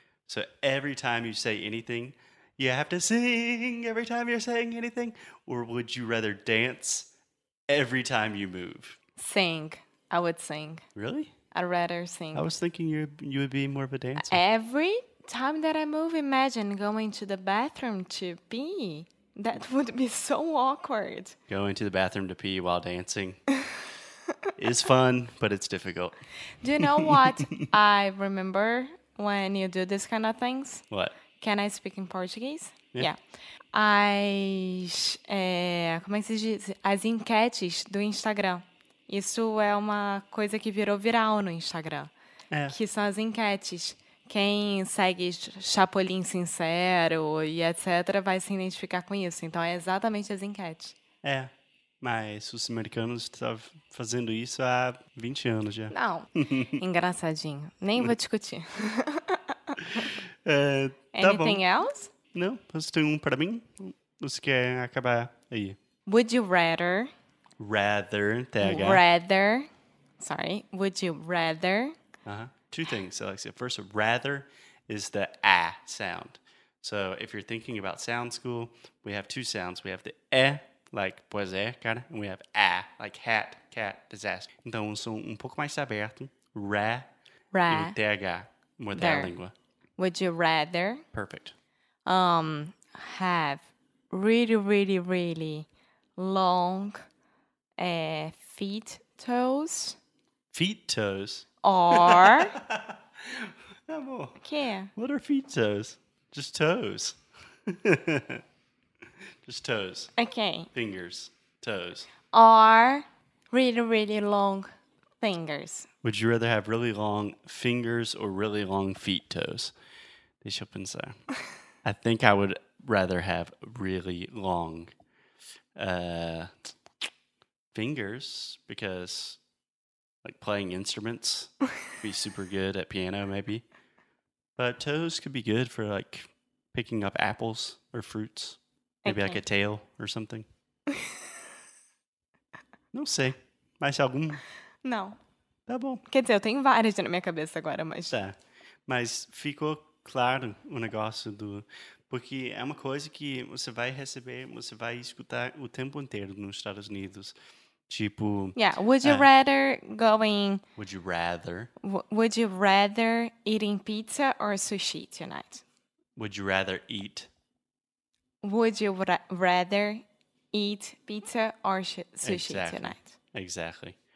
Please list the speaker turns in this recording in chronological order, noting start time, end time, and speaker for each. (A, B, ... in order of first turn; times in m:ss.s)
0:00.3-0:07.1 A
0:07.7-0:09.0 A
0:09.2-0:10.8 B
0:11.0-0:11.3 A
0:11.5-0:12.4 B
0:12.3-0:14.4 A
0:14.2-0:21.4 B
0:21.5-0:23.4 A
0:24.6-0:26.2 A
0:26.6-0:30.8 B
0:26.8-0:27.7 A
0:30.9-0:31.2 A
0:31.4-0:33.2 B
0:33.7-0:42.1 B
0:42.5-0:42.8 A
0:42.7-0:51.0 B
0:51.2-0:56.8 A
0:55.9-1:00.1 B
1:00.0-1:01.6 A
1:01.1-1:02.1 B
1:02.3-1:05.8 A
1:06.1-1:07.1 B
1:07.6-1:09.0 A
1:08.6-1:09.7 B
1:10.2-1:12.0 B
1:12.3-1:27.1 A
1:27.5-1:28.0 B
1:27.7-1:29.5 A
1:28.9-1:29.3 B
1:30.0-1:31.0 B
1:31.1-1:31.5 A
1:32.1-1:37.0 B
1:37.8-1:40.0 B
1:40.5-1:44.4 A
1:41.6-1:42.6 B
1:44.4-1:44.9 B
1:45.0-1:47.2 A
1:47.7-1:48.4 A
1:49.4-1:50.1 A
1:50.2-1:50.7 B
1:50.7-1:52.1 A
1:52.3-1:55.9 B
1:56.0-1:59.7 A
2:00.4-2:01.2 A
2:01.8-2:04.9 A
2:05.8-2:06.5 A
2:07.7-2:09.4 A
2:10.2-2:13.6 A
2:14.6-2:20.5 A
2:19.0-2:19.4 B
2:22.9-2:24.4 A
2:24.8-2:25.2 B
2:25.7-2:26.0 A
2:26.1-2:28.1 B
2:28.1-2:28.4 A
2:28.9-2:37.4 A
2:37.9-2:39.3 A
2:38.6-2:40.6 B
2:40.8-2:41.7 A
2:41.8-2:45.6 B
2:46.2-2:47.3 A
2:48.4-2:53.1 B
2:52.2-2:54.0 A